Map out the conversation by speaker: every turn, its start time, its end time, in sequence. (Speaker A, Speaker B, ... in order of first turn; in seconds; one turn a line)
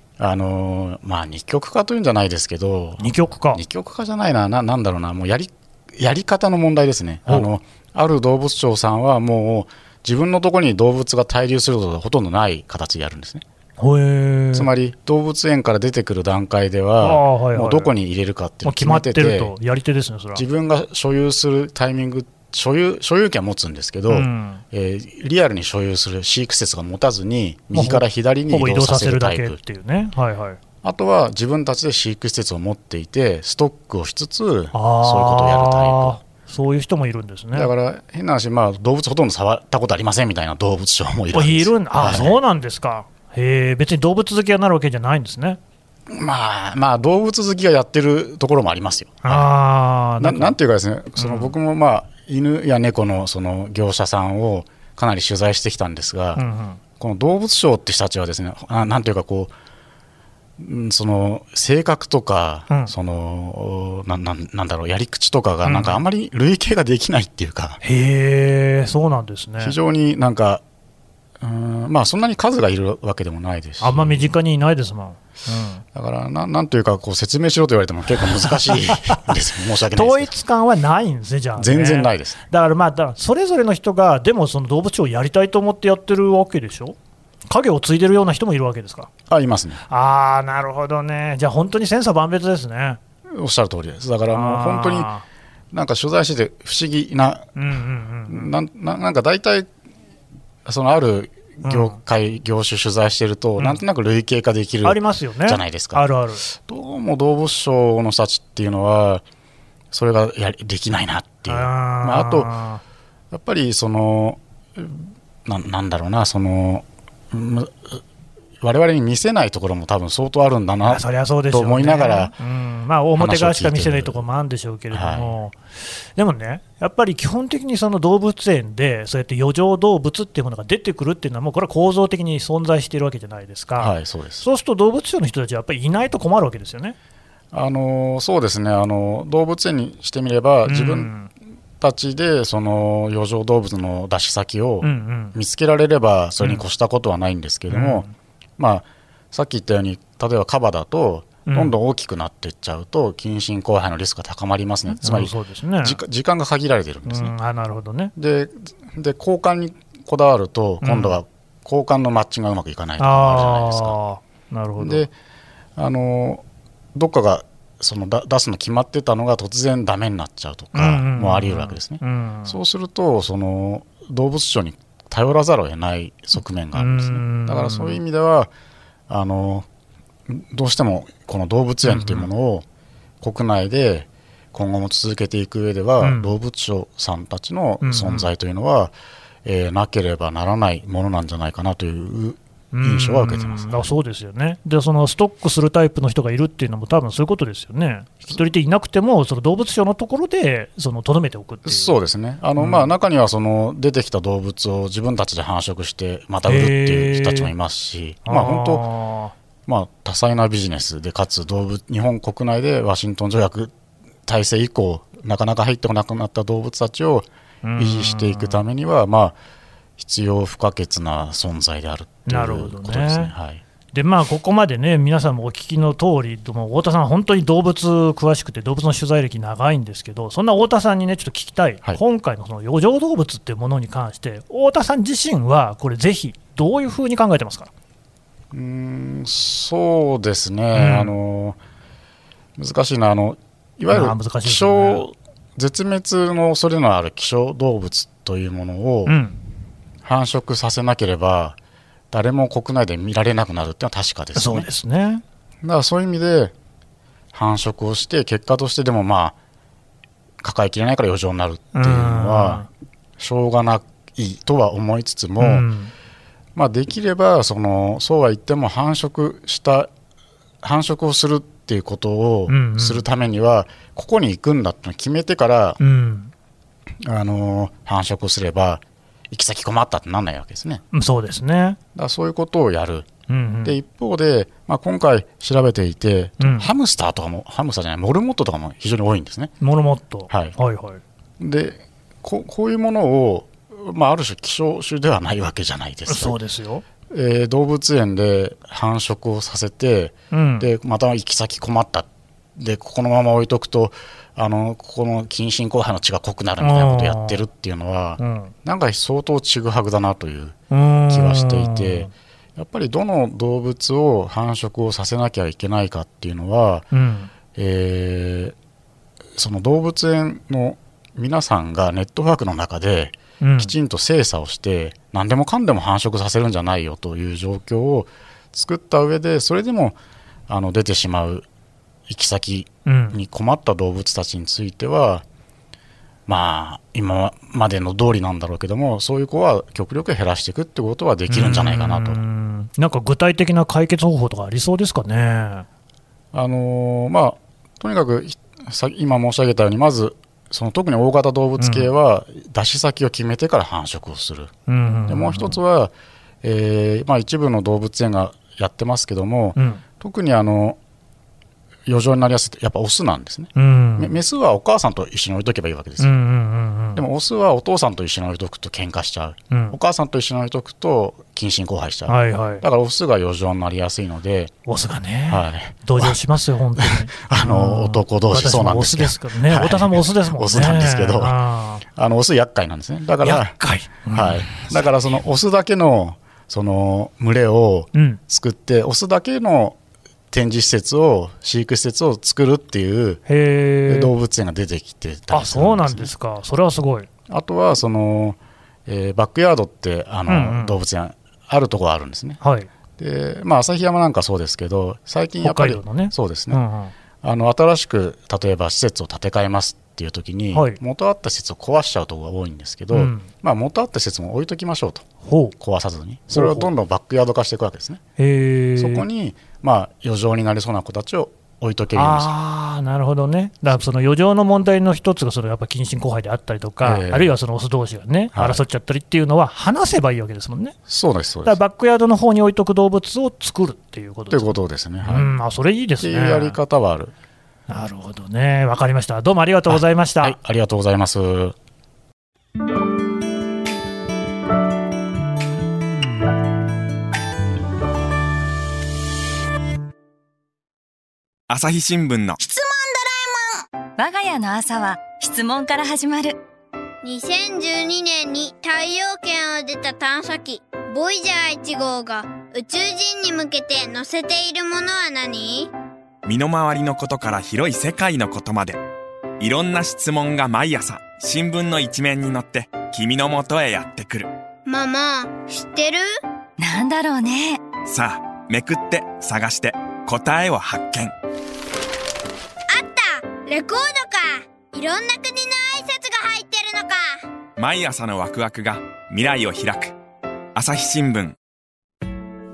Speaker A: 0.2-13.4
Speaker B: 3.0-3.6
Speaker B: 13.8-14.7
Speaker A: 14.5-19.5
Speaker B: 17.0-17.9
Speaker B: 18.6-20.4
Speaker A: 20.4-29.6
Speaker B: 24.1-24.6
Speaker B: 27.7-30.6
Speaker A: 30.8-36.2
Speaker B: 34.7-37.7
Speaker A: 37.5-42.4
Speaker B: 41.3-45.6
Speaker A: 46.1-49.5
Speaker B: 49.2-50.6
Speaker A: 50.2-56.4
Speaker B: 51.2-51.5
Speaker B: 56.4-56.8
Speaker A: 57.0-59.5
Speaker A: 60.6-67.8
Speaker B: 65.6-66.0
Speaker B: 67.8-69.8
Speaker A: 69.6-70.6
Speaker A: 71.4-74.3
Speaker B: 73.8-75.8
Speaker A: 75.9-80.4
Speaker B: 79.9-87.0
Speaker A: 81.6-82.4
Speaker B: 87.5-89.1
Speaker A: 89.3-89.8
Speaker B: 89.9-93.0
Speaker A: 93.3-95.1
Speaker B: 94.3-95.2
Speaker A: 95.7-97.5
Speaker B: 97.6-98.5
Speaker A: 98.3-99.7
Speaker A: 100.7-109.2
Speaker B: 101.6-102.0
Speaker B: 104.8-106.4
Speaker A: 109.9-112.5
Speaker B: 111.5-112.8
Speaker A: 113.3-118.0
Speaker A: 118.6-122.3
Speaker B: 120.8-125.6
Speaker A: 123.2-124.2
Speaker A: 124.9-125.4
Speaker B: 126.2-137.0
Speaker A: 133.8-134.5
Speaker A: 137.5-141.1
Speaker B: 140.7-141.3
Speaker A: 141.8-148.1
Speaker B: 144.8-145.4
Speaker B: 147.7-148.1
Speaker A: 148.6-157.3
Speaker B: 151.5-151.8
Speaker B: 155.0-156.0
Speaker B: 157.1-158.1
Speaker A: 158.2-164.0
Speaker B: 160.8-161.2
Speaker B: 163.0-165.1
Speaker A: 164.8-165.1
Speaker A: 165.8-178.5
Speaker B: 170.7-172.6
Speaker B: 176.8-178.0
Speaker A: 179.1-179.7
Speaker A: 180.3-182.7
Speaker B: 181.8-182.3
Speaker A: 183.2-188.9
Speaker B: 186.0-186.3
Speaker B: 187.8-188.3
Speaker A: 189.4-193.9
Speaker B: 192.7-201.9
Speaker A: 201.7-208.9
Speaker B: 202.6-202.9
Speaker B: 206.5-207.5
Speaker B: 208.3-209.3
Speaker A: 209.7-213.7
Speaker A: 214.3-217.3
Speaker B: 217.6-218.6
Speaker A: 217.8-219.4
Speaker A: 220.0-223.6
Speaker B: 222.3-223.3
Speaker B: 223.9-237.7
Speaker A: 238.5-241.6
Speaker B: 240.7-241.1
Speaker A: 242.6-249.2
Speaker B: 243.9-245.1
Speaker B: 249.1-249.4
Speaker A: 250.0-251.6
Speaker A: 252.1-254.7
Speaker B: 254.4-255.2
Speaker A: 255.6-256.5
Speaker A: 257.3-259.4
Speaker A: 260.4-262.7
Speaker B: 261.7-262.7
Speaker A: 263.2-265.7
Speaker B: 265.4-265.9
Speaker A: 266.6-269.9
Speaker A: 270.6-275.8
Speaker B: 272.5-273.1
Speaker B: 275.8-276.3
Speaker A: 277.0-280.8
Speaker B: 280.9-281.8
Speaker A: 281.9-283.1
Speaker B: 283.3-283.8
Speaker A: 283.6-289.5
Speaker B: 286.4-286.7
Speaker B: 289.6-291.0
Speaker A: 290.3-290.6
Speaker A: 291.4-296.4
Speaker B: 296.1-296.9
Speaker A: 297.1-310.6
Speaker B: 300.3-300.7
Speaker B: 306.6-307.4
Speaker B: 308.2-308.5
Speaker B: 310.7-312.1
Speaker A: 311.1-316.9
Speaker B: 316.9-317.3
Speaker A: 317.5-318.6
Speaker A: 319.4-331.5
Speaker B: 323.4-323.7
Speaker A: 332.1-335.2
Speaker B: 332.9-333.2
Speaker A: 336.3-342.2
Speaker B: 341.3-345.7
Speaker A: 346.3-354.5
Speaker B: 351.6-351.9
Speaker B: 354.7-355.6
Speaker A: 355.1-360.8
Speaker B: 359.6-359.8
Speaker A: 361.9-366.1
Speaker B: 363.6-364.2
Speaker B: 366.0-367.0
Speaker A: 367.0-374.5
Speaker B: 369.5-369.8
Speaker B: 372.1-372.6
Speaker B: 374.7-381.8
Speaker A: 375.3-376.2
Speaker A: 376.8-383.6
Speaker B: 383.2-384.9
Speaker A: 384.1-389.8
Speaker B: 387.9-388.2
Speaker A: 390.3-393.2
Speaker B: 393.3-394.1
Speaker A: 393.9-396.1
Speaker B: 395.3-397.1
Speaker A: 397.3-402.4
Speaker B: 400.3-400.8
Speaker B: 402.4-402.7
Speaker A: 403.0-406.6
Speaker B: 405.4-406.9
Speaker A: 407.2-415.1
Speaker B: 410.5-410.8
Speaker B: 412.9-413.3
Speaker B: 415.2-415.6
Speaker A: 415.6-418.0
Speaker B: 416.3-416.7
Speaker B: 418.2-419.1
Speaker A: 418.8-422.3
Speaker B: 421.9-430.8
Speaker A: 426.8-427.4
Speaker A: 428.3-428.6
Speaker A: 430.9-431.6
Speaker B: 431.4-436.6
Speaker A: 434.3-435.3
Speaker A: 436.0-437.1
Speaker B: 437.7-440.4
Speaker A: 439.7-441.6
Speaker C: 451.5-452.4
Speaker D: 452.4-456.4
Speaker E: 457.0-465.7
Speaker C: 466.2-468.8
Speaker C: 469.4-474.3
Speaker E: 474.7-476.1
Speaker D: 476.6-477.6
Speaker C: 477.9-481.1
Speaker E: 482.7-487.2
Speaker C: 487.6-489.9
Speaker C: 490.6-491.4